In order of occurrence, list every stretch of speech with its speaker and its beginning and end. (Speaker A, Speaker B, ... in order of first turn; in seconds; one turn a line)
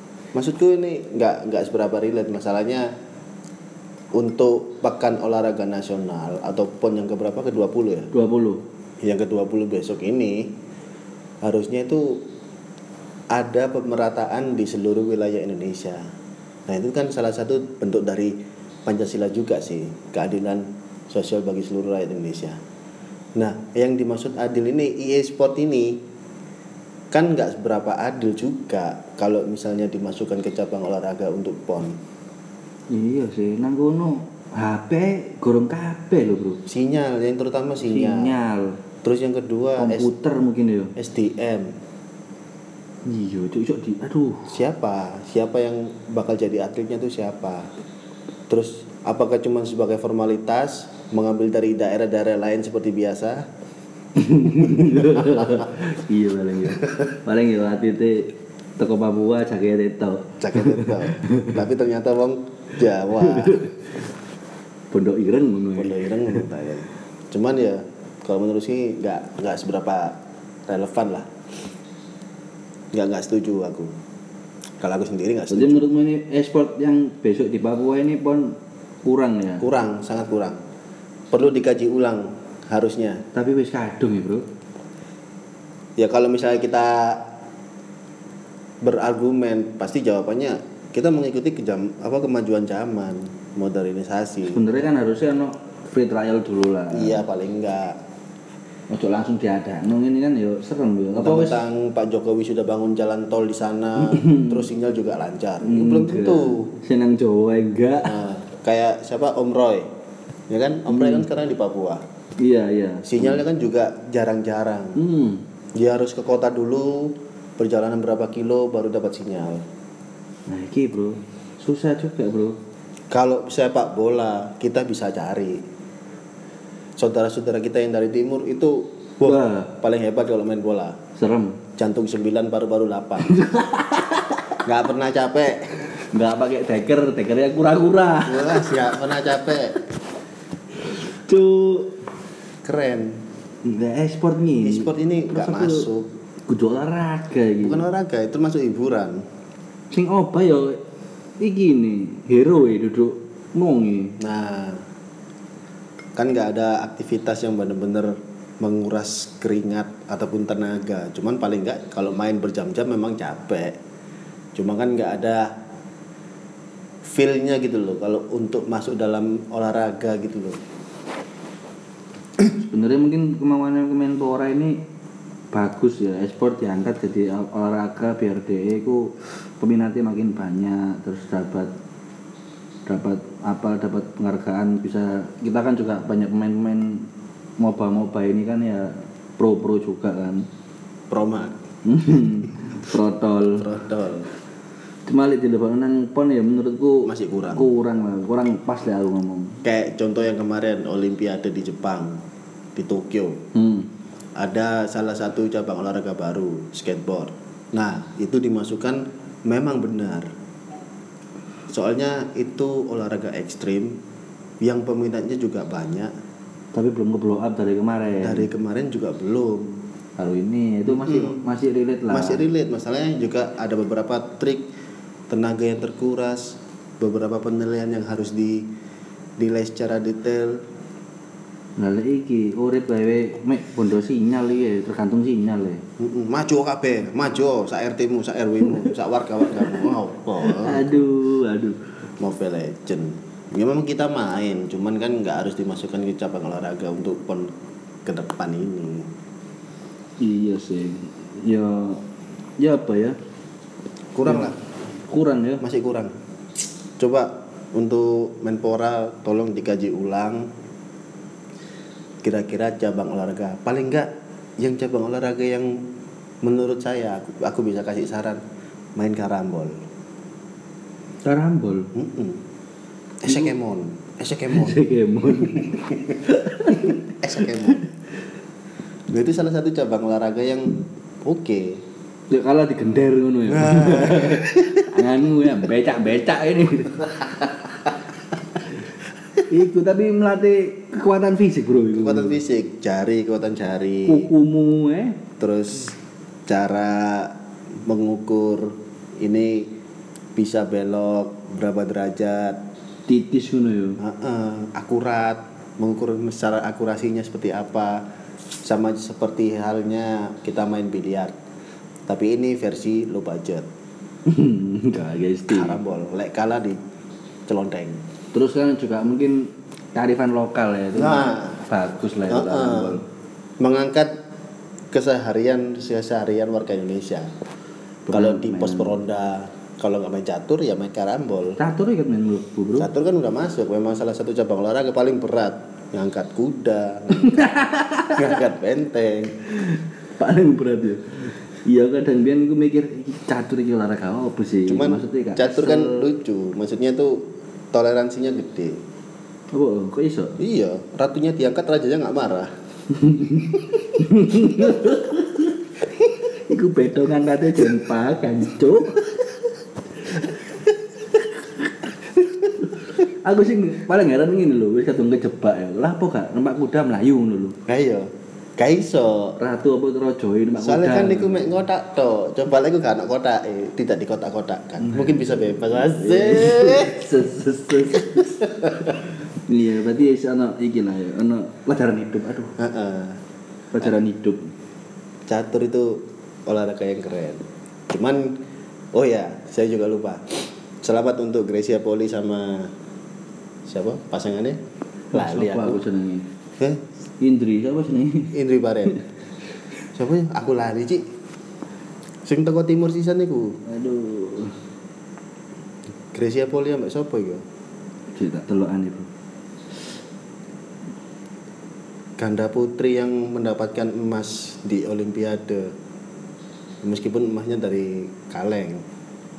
Speaker A: 0.3-2.9
Speaker A: 4.1-8.1
Speaker B: 8.1-8.6
Speaker A: 9.0-10.5
Speaker A: 11.4-12.2
Speaker A: 13.3-16.1
Speaker A: 16.7-22.6
Speaker A: 23.4-26.0
Speaker A: 27.1-32.0
Speaker B: 32.9-36.6
Speaker A: 36.7-38.3
Speaker B: 37.8-38.8
Speaker A: 39.0-40.1
Speaker B: 39.8-41.0
Speaker A: 41.0-41.7
Speaker B: 43.1-44.5
Speaker A: 44.5-47.7
Speaker A: 48.5-53.5
Speaker B: 54.2-61.6
Speaker A: 54.6-55.7
Speaker A: 60.4-63.7
Speaker B: 63.2-63.7
Speaker B: 64.9-66.5
Speaker A: 65.8-71.3
Speaker A: 72.9-73.9
Speaker A: 74.8-75.9
Speaker B: 75.5-79.7
Speaker A: 79.6-80.6
Speaker A: 81.3-83.2
Speaker B: 83.3-84.4
Speaker A: 86.0-87.3
Speaker A: 88.8-94.6
Speaker B: 94.5-97.2
Speaker A: 96.9-98.0
Speaker B: 98.9-101.6
Speaker A: 101.2-106.7
Speaker B: 104.0-104.6
Speaker B: 105.6-108.2
Speaker A: 108.0-109.9
Speaker A: 110.5-112.0
Speaker B: 110.9-111.3
Speaker B: 112.4-113.4
Speaker A: 113.0-115.0
Speaker B: 115.0-115.4
Speaker A: 115.8-119.6
Speaker B: 120.5-122.6
Speaker A: 123.1-125.6
Speaker A: 127.0-131.0
Speaker B: 129.2-129.7
Speaker B: 131.2-131.6
Speaker A: 131.8-133.3
Speaker B: 133.2-134.6
Speaker A: 134.6-135.9
Speaker B: 136.0-138.9
Speaker A: 138.3-139.8
Speaker B: 140.8-141.9
Speaker A: 142.6-143.2
Speaker B: 143.6-145.9
Speaker A: 144.6-146.1
Speaker B: 146.5-147.8
Speaker A: 147.6-149.2
Speaker B: 149.9-150.8
Speaker B: 151.4-154.2
Speaker A: 154.2-154.8
Speaker A: 156.2-163.8
Speaker A: 164.6-165.6
Speaker A: 167.0-170.6
Speaker B: 172.5-174.8
Speaker B: 175.5-181.7
Speaker B: 182.9-187.1
Speaker B: 187.6-190.4
Speaker A: 191.1-191.6
Speaker B: 191.8-193.7
Speaker A: 193.6-194.3
Speaker B: 195.1-199.6
Speaker A: 197.1-197.7
Speaker A: 199.6-202.2
Speaker A: 202.8-203.4
Speaker B: 203.6-203.9
Speaker A: 204.4-210.3
Speaker A: 211.7-214.0
Speaker A: 214.6-216.1
Speaker B: 216.7-218.5
Speaker A: 218.2-219.8
Speaker B: 220.2-222.4
Speaker A: 220.9-221.4
Speaker A: 222.1-224.7
Speaker A: 225.3-228.7
Speaker A: 229.4-230.6
Speaker B: 231.8-235.8
Speaker A: 236.0-240.9
Speaker B: 239.6-241.8
Speaker A: 242.2-247.5
Speaker A: 248.1-249.1
Speaker B: 250.2-252.0
Speaker B: 252.6-253.2
Speaker A: 254.2-254.6
Speaker B: 254.3-254.5
Speaker B: 255.1-255.6
Speaker A: 255.6-256.2
Speaker A: 257.0-260.5
Speaker A: 262.2-265.8
Speaker A: 266.4-268.4
Speaker A: 269.0-269.8
Speaker B: 271.2-271.9
Speaker A: 271.9-272.4
Speaker A: 273.2-274.8
Speaker B: 274.5-277.9
Speaker A: 275.4-276.2
Speaker A: 276.7-277.9
Speaker A: 279.1-281.8
Speaker B: 282.3-287.4
Speaker A: 283.5-285.0
Speaker B: 289.5-292.4
Speaker A: 291.9-294.3
Speaker B: 294.1-295.2
Speaker A: 295.4-299.7
Speaker A: 300.4-302.6
Speaker B: 303.1-304.0
Speaker A: 304.0-308.1
Speaker A: 308.6-311.4
Speaker A: 312.1-313.7
Speaker B: 314.2-315.8
Speaker A: 315.5-316.8
Speaker A: 317.5-318.0
Speaker B: 318.3-323.0
Speaker A: 320.9-321.6
Speaker A: 322.3-323.0
Speaker A: 323.6-324.1
Speaker A: 324.9-327.3
Speaker B: 328.1-329.0
Speaker A: 328.1-331.6
Speaker B: 331.6-332.9
Speaker A: 332.8-337.6
Speaker B: 337.1-338.3
Speaker A: 338.1-339.4
Speaker B: 339.6-346.1
Speaker A: 344.7-348.8
Speaker B: 349.5-350.4
Speaker A: 350.4-352.5
Speaker B: 352.9-359.1
Speaker B: 361.6-367.6
Speaker A: 367.7-369.4
Speaker B: 369.4-371.5
Speaker A: 370.6-377.1
Speaker B: 375.7-382.6
Speaker A: 377.9-379.0
Speaker A: 382.6-383.2
Speaker B: 383.7-384.5
Speaker A: 385.3-388.4
Speaker A: 388.9-392.7
Speaker A: 393.7-394.6
Speaker A: 395.1-395.8
Speaker B: 395.1-396.3
Speaker A: 396.6-396.8
Speaker B: 397.2-398.4
Speaker A: 398.3-399.0
Speaker A: 399.9-401.0
Speaker A: 402.2-403.6
Speaker B: 403.6-404.6
Speaker A: 406.1-407.4
Speaker B: 408.1-409.1
Speaker A: 412.2-415.8
Speaker A: 416.8-418.9